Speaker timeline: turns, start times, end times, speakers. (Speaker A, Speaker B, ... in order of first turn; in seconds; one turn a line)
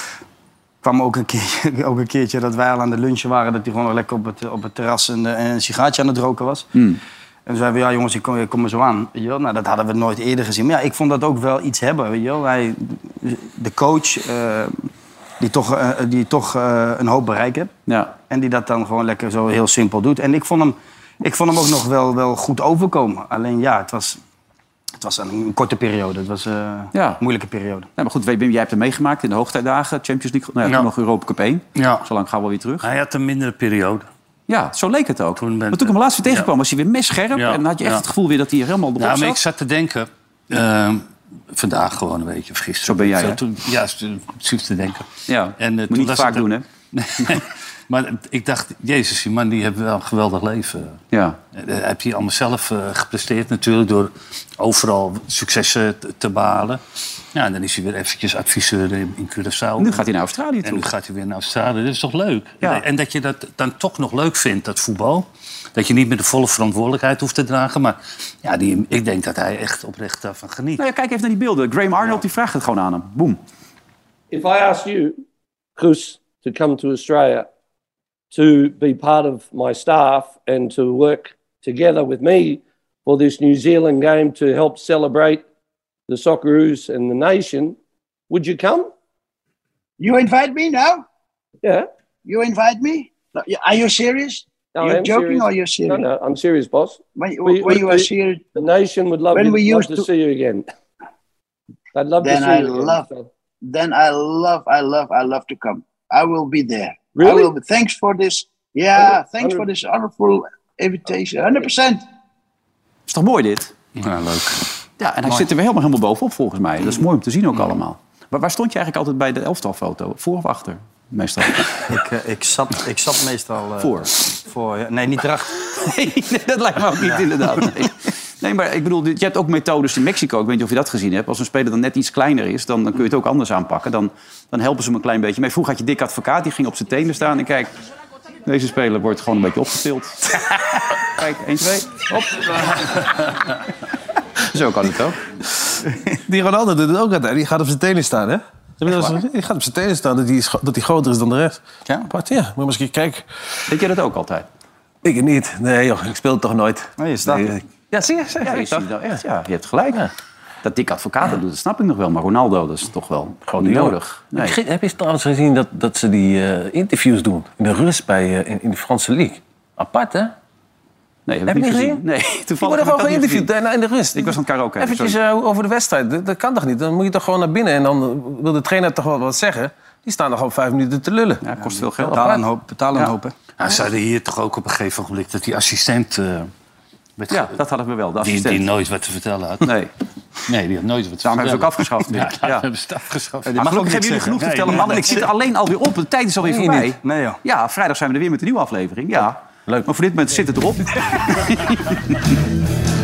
Speaker A: 0.8-6.7
Speaker A: 7.5-14.9
Speaker A: 15.4-17.7
Speaker B: 17.9-18.1
Speaker A: 18.3-24.2
Speaker A: 25.0-27.9
Speaker B: 26.9-27.2
Speaker B: 28.0-32.9
Speaker C: 31.8-32.1
Speaker C: 32.8-34.1
Speaker B: 34.5-39.4
Speaker C: 35.4-36.5
Speaker C: 37.3-38.1
Speaker C: 39.0-51.0
Speaker B: 42.9-43.4
Speaker B: 45.3-46.6
Speaker B: 51.1-51.4
Speaker C: 51.5-56.8
Speaker C: 57.3-60.1
Speaker B: 59.8-60.9
Speaker C: 60.6-70.8
Speaker B: 70.8-73.4
Speaker D: 74.3-75.2
Speaker D: 75.8-77.5
Speaker D: 78.3-85.4
Speaker D: 86.1-87.8
Speaker D: 88.3-88.9
Speaker E: 90.0-91.0
Speaker D: 91.6-91.9
Speaker E: 92.2-96.1
Speaker D: 94.8-100.7
Speaker E: 97.2-98.6
Speaker E: 99.3-100.1
Speaker D: 102.0-103.3
Speaker E: 102.2-103.1
Speaker E: 103.6-112.0
Speaker D: 107.2-107.5
Speaker D: 109.0-109.7
Speaker B: 113.1-113.7
Speaker C: 114.0-114.7
Speaker B: 115.0-121.8
Speaker A: 121.9-125.5
Speaker B: 123.8-124.1
Speaker B: 125.6-137.7
Speaker B: 138.4-143.0
Speaker B: 144.5-145.3
Speaker F: 145.5-153.2
Speaker B: 148.9-149.2
Speaker A: 151.9-152.1
Speaker B: 153.7-154.5
Speaker F: 155.0-159.1
Speaker A: 157.0-157.6
Speaker B: 158.4-160.1
Speaker B: 160.6-164.6
Speaker F: 163.5-170.3
Speaker B: 171.3-173.5
Speaker F: 171.5-172.0
Speaker F: 172.6-181.5
Speaker B: 174.1-175.2
Speaker B: 181.4-182.4
Speaker A: 181.8-183.3
Speaker F: 182.0-182.4
Speaker C: 183.6-186.5
Speaker C: 187.2-187.6
Speaker B: 187.3-188.7
Speaker C: 188.2-189.7
Speaker B: 189.6-189.9
Speaker C: 190.5-193.8
Speaker B: 191.2-192.7
Speaker A: 193.5-195.3
Speaker B: 193.5-202.2
Speaker C: 194.4-195.0
Speaker F: 196.4-196.9
Speaker A: 197.0-197.4